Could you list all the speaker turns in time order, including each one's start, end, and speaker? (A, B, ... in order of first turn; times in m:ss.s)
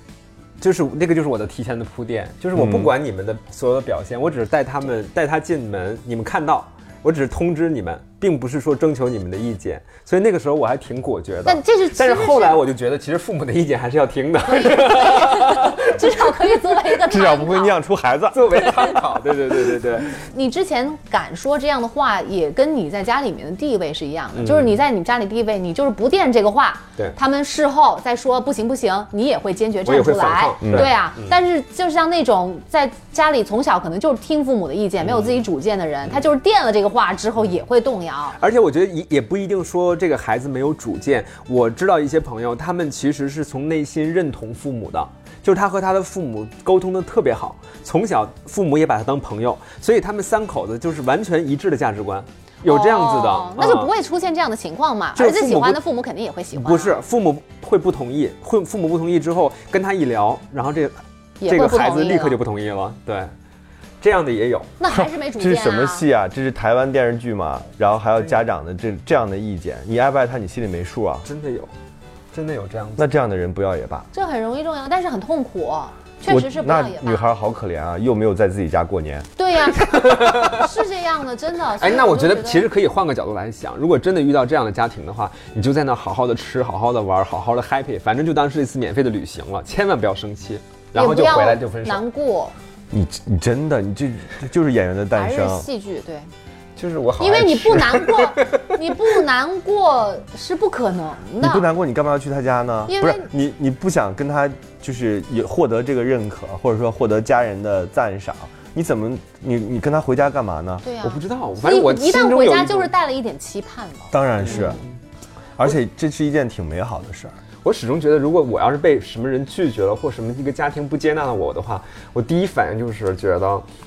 0:00.6-0:16.1 A
0:02.5-0:02.9 B
0:11.4-0:12.6 C
0:14.5-0:17.8 C
0:17.1-0:18.6 B
0:18.3-0:20.2 A
0:20.1-0:38.4 C
0:24.4-0:24.7 A
0:29.9-0:31.3 A
0:30.6-0:30.9 B
0:35.0-0:35.4 A
0:38.4-0:53.9 A
0:52.6-0:57.0 C
0:55.2-0:55.8 A
0:56.5-1:03.3 A
1:01.4-1:02.4 C
1:04.0-1:04.7 A
1:04.8-1:06.0 C
1:04.9-1:11.3 B
1:11.2-1:11.7 A
1:12.3-1:13.1 A
1:13.0-1:14.1 B
1:14.1-1:17.3 C
1:16.3-1:19.3 B
1:19.4-1:22.7 C
1:19.7-1:20.7 A
1:21.8-1:32.0 A
1:30.9-1:32.5 C
1:32.9-1:35.6 B
1:35.1-1:36.3 C
1:36.8-1:38.6 A
1:37.2-1:41.6 C
1:41.4-1:50.9 B
1:42.9-1:43.3 C
1:50.8-1:54.1 C
1:51.0-1:52.9 A
1:54.1-1:54.8 B
1:54.4-1:54.8 A
1:55.6-1:57.4 B
1:57.6-2:03.6 A